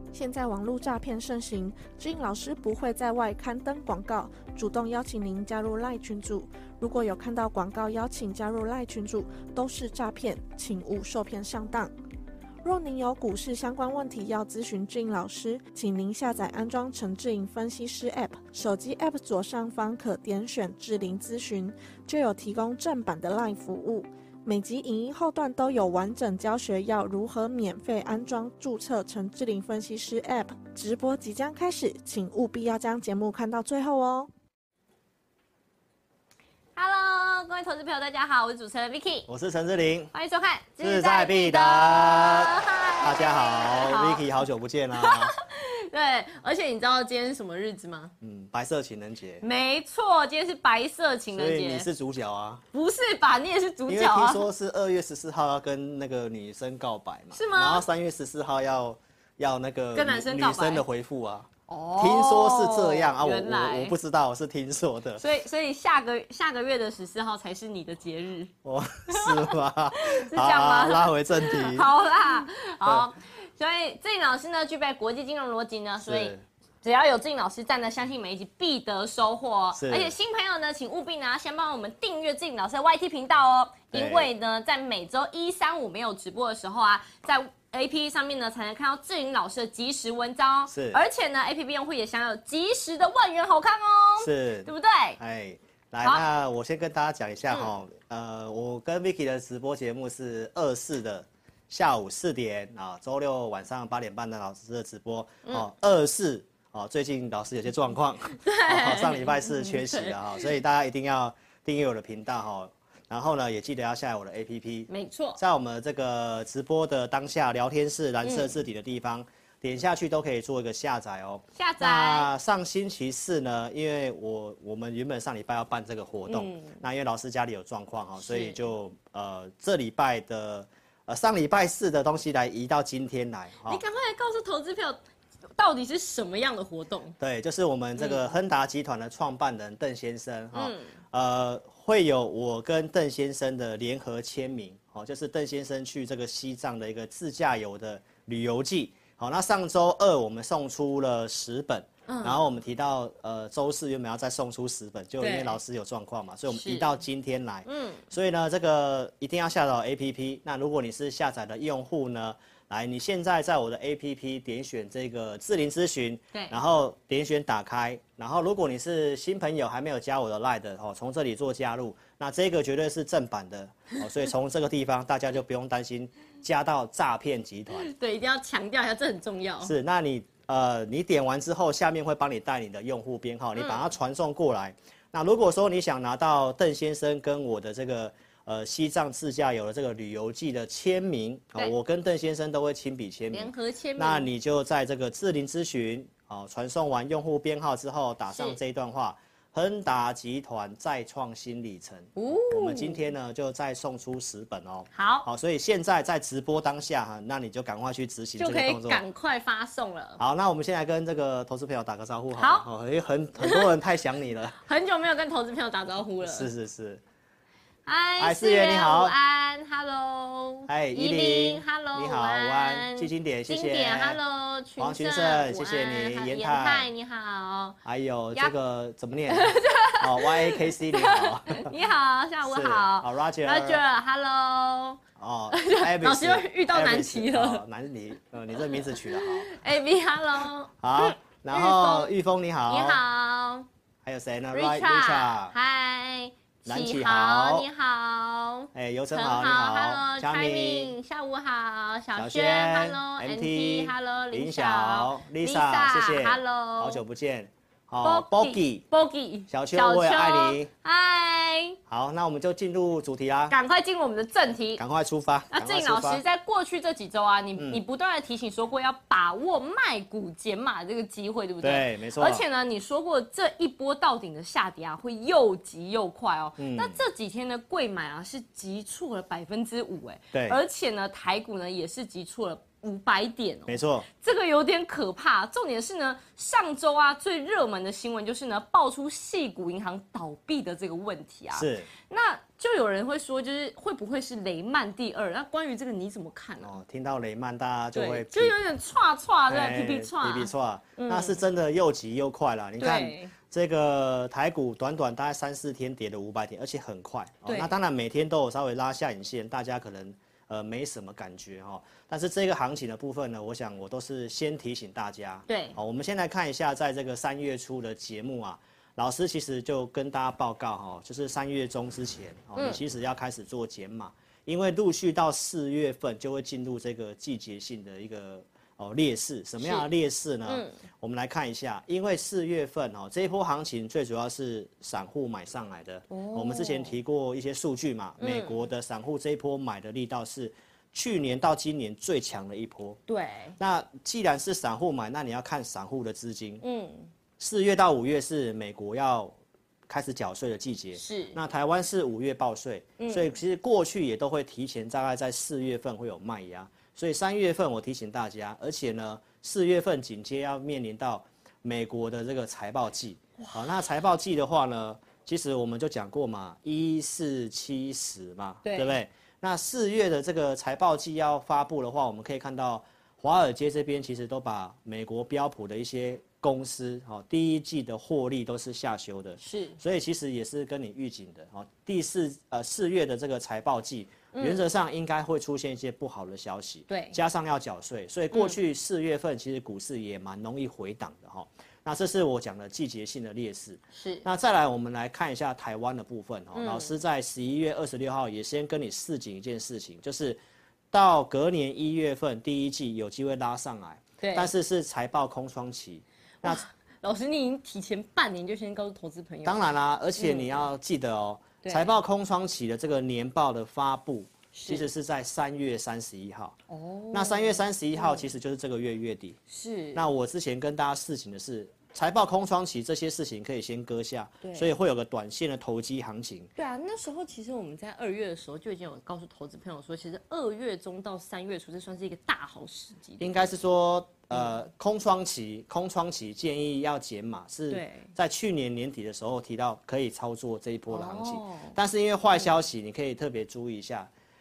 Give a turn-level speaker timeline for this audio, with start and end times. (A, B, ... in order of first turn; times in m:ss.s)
0:00.1-0:11.9 A
0:12.6-0:34.3 A
0:36.8-0:39.3 B
0:39.3-0:40.1 C
0:40.1-0:44.2 B
0:40.8-0:45.3 C
0:44.9-0:48.1 B
0:48.2-0:49.4 C
0:49.4-0:51.9 B
0:51.3-0:52.6 C
0:52.7-0:54.5 B
0:53.9-1:05.2 C
0:57.3-0:57.8 B
0:59.9-1:00.8 B
1:01.7-1:04.0 B
1:05.2-1:08.5 B
1:08.6-1:11.9 C
1:09.1-1:35.2 B
1:16.0-1:16.4 C
1:19.7-1:20.1 C
1:23.9-1:24.3 C
1:30.7-1:31.0 C
1:34.2-2:13.8 C
1:48.4-1:50.5 B
1:54.9-1:55.4 B
1:58.2-1:58.6 B
2:01.6-2:02.3 B
2:06.3-2:06.8 B
2:08.2-2:08.6 B
2:13.6-2:15.0 B
2:15.5-2:17.1 B
2:17.2-2:57.9 C
2:18.0-2:18.3 B
2:20.5-2:20.9 B
2:32.1-2:32.4 B
2:35.2-2:35.6 B
2:36.5-2:36.9 B
2:37.6-2:38.0 B
2:57.8-2:59.7 B
2:59.6-3:29.0 C
3:03.6-3:03.8 B
3:13.3-3:14.3 B
3:18.3-3:18.6 B
3:22.2-3:23.0 B
3:24.9-3:25.3 B
3:28.4-3:30.2 B
3:30.2-3:34.6 C
3:32.4-3:32.7 B
3:33.4-3:33.7 B
3:34.6-3:36.5 B
3:36.2-3:37.0 C
3:37.8-3:47.8 B
3:38.2-3:39.1 C
3:40.7-3:44.2 C
3:44.8-3:46.9 C
3:47.8-3:51.7 C
3:49.3-3:57.6 B
3:52.4-3:53.8 C
3:55.2-3:59.5 C
3:58.6-4:02.1 B
4:00.8-4:03.0 C
4:02.7-4:03.7 B
4:04.0-4:05.5 C
4:04.5-4:17.0 B
4:06.6-4:07.7 C
4:08.7-4:10.9 C
4:12.1-4:18.8 C
4:18.0-4:21.8 B
4:19.5-4:20.7 C
4:21.9-4:23.5 C
4:23.5-4:24.8 B
4:24.8-4:26.2 C
4:25.5-4:56.8 B
4:31.6-4:32.4 C
4:36.6-4:37.0 C
4:40.3-4:40.6 C
4:43.7-4:44.1 C
4:51.5-4:51.9 C
4:56.6-4:58.6 C
4:57.9-5:01.4 B
4:59.5-5:43.0 C
5:02.8-5:03.3 B
5:07.4-5:07.7 B
5:15.5-5:15.8 B
5:22.5-5:22.8 B
5:29.6-5:29.9 B
5:30.4-5:30.7 B
5:36.1-5:37.0 B
5:38.2-5:38.7 B
5:43.1-5:43.6 B
5:43.6-5:46.6 C
5:46.6-5:47.1 B
5:47.4-5:49.3 C
5:49.9-6:40.4 C
5:50.9-5:51.4 B
5:53.0-5:53.3 B
6:08.6-6:08.9 B
6:19.4-6:19.8 B
6:24.3-6:24.6 B
6:26.9-6:27.2 B
6:33.9-6:34.2 B
6:36.5-6:37.0 B
6:40.9-6:46.6 C
6:44.2-6:44.5 B
6:46.4-6:50.6 B
6:49.4-6:56.6 C
6:51.6-6:51.9 B
6:54.5-6:54.9 B
6:56.7-6:58.3 B
6:57.1-6:59.4 C
6:59.5-7:00.1 B
6:59.9-7:06.5 C
7:04.4-7:04.7 B
7:06.6-7:13.5 B
7:13.2-7:24.1 C
7:17.7-7:18.1 B
7:20.9-7:21.7 B